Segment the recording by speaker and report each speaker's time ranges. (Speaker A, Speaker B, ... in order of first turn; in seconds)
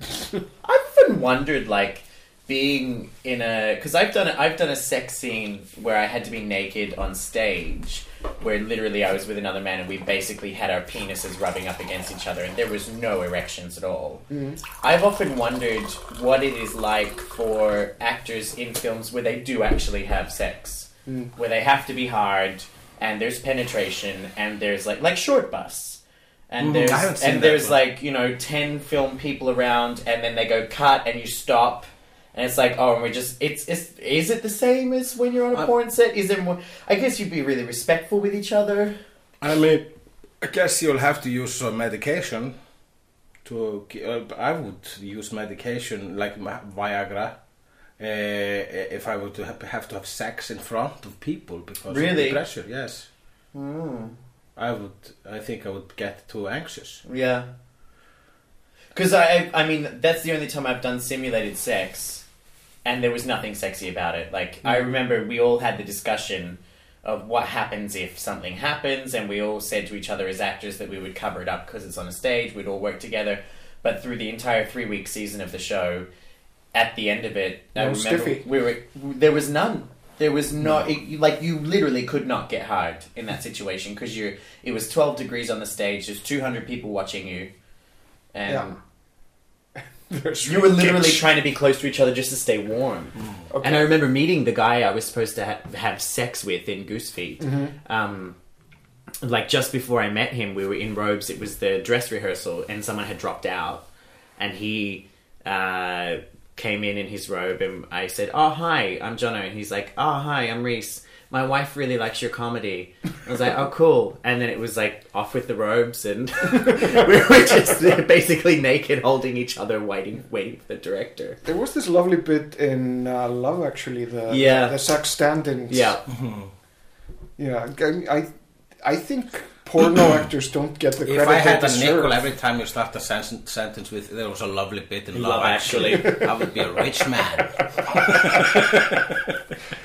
Speaker A: 0.6-14.2, 14.8-26.0, 26.5-39.0, 51.9-52.4, 53.5-54.2, 57.0-57.5, 58.9-62.2, 62.8-76.0, 76.7-87.5, 88.3-88.8, 90.5-98.3, 99.2-103.8, 104.4-121.4, 124.3-124.7, 125.7-126.0, 135.1-136.3
Speaker B: 14.3-14.6, 77.8-78.4, 88.5-88.7, 90.1-91.2, 93.5-93.9, 97.4-97.7, 121.4-126.0, 127.4-128.3, 128.8-132.2
Speaker C: 26.6-27.8, 39.4-39.9, 40.4-42.5, 43.4-47.3, 48.0-53.1, 54.5-57.0, 126.1-126.5, 131.1-139.2